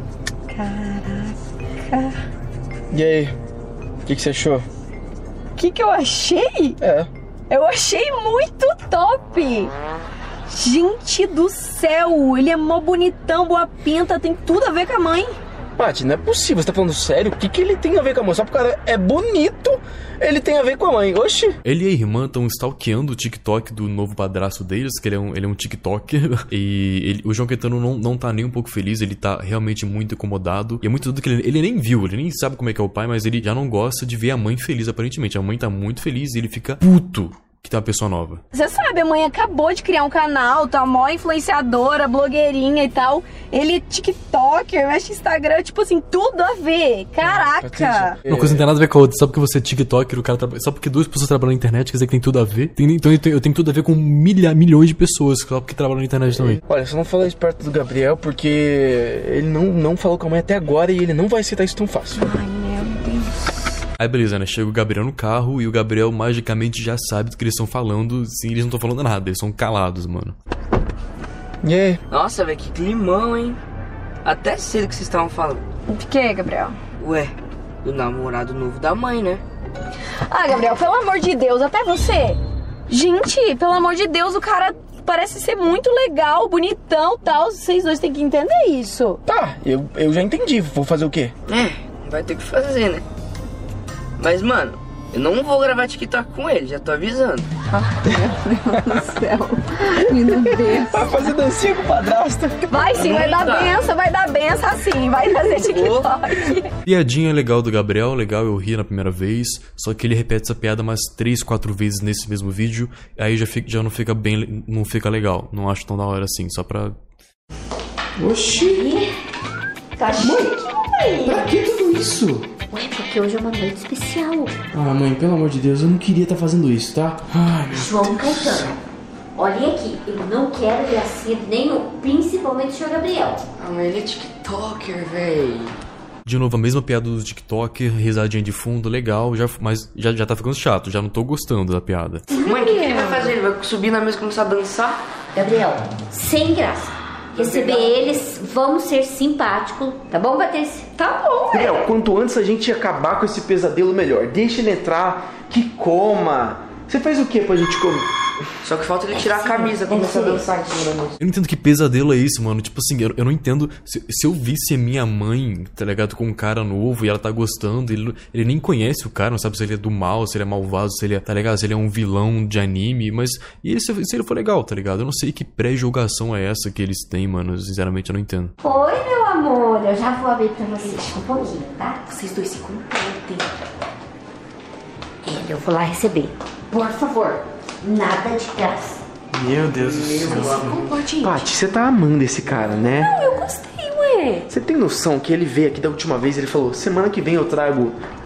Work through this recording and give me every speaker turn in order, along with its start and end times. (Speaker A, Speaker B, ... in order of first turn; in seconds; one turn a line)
Speaker A: 0.5-2.1
Speaker B: 2.9-3.4
Speaker B: 4.1-4.7
Speaker A: 5.6-6.8
Speaker B: 6.8-7.1
Speaker A: 7.5-9.7
Speaker A: 10.5-15.4
Speaker B: 15.8-21.6
Speaker C: 21.6-38.4
Speaker A: 38.5-48.2
Speaker B: 47.3-48.6
Speaker C: 48.3-56.6
Speaker B: 56.4-62.3
Speaker A: 62.2-63.5
Speaker C: 64.0-70.3
Speaker B: 71.6-72.0
Speaker D: 72.1-73.6
Speaker D: 74.2-75.6
Speaker A: 75.9-76.8
Speaker D: 77.0-79.4
Speaker A: 80.2-89.2
Speaker B: 89.3-91.3
Speaker D: 91.5-93.0
Speaker D: 94.2-97.5
Speaker A: 97.7-101.0
Speaker B: 100.0-102.7
Speaker A: 102.7-106.7
Speaker D: 102.9-103.8
Speaker D: 105.7-106.1
Speaker C: 106.9-117.0
Speaker B: 118.2-118.9
Speaker E: 118.6-119.1
Speaker A: 120.1-121.5
Speaker B: 120.2-120.5
Speaker B: 121.2-122.5
Speaker E: 122.7-124.5
Speaker B: 124.7-128.8
Speaker E: 127.7-128.8
Speaker E: 129.4-133.4
Speaker D: 133.6-135.8
Speaker C: 136.2-142.3
Speaker D: 142.3-145.0
Speaker A: 142.5-143.3
Speaker E: 145.3-151.6
Speaker D: 147.3-147.9
Speaker B: 151.5-158.1
Speaker D: 158.6-161.2
Speaker E: 159.1-160.5
Speaker C: 161.2-178.6
Speaker E: 178.6-182.1
Speaker A: 182.1-183.4
Speaker E: 185.2-186.3
Speaker D: 186.8-187.4
Speaker E: 187.8-189.0
Speaker B: 189.3-193.1
Speaker D: 189.6-191.0
Speaker A: 190.6-191.4
Speaker A: 193.0-194.4
Speaker B: 194.5-198.0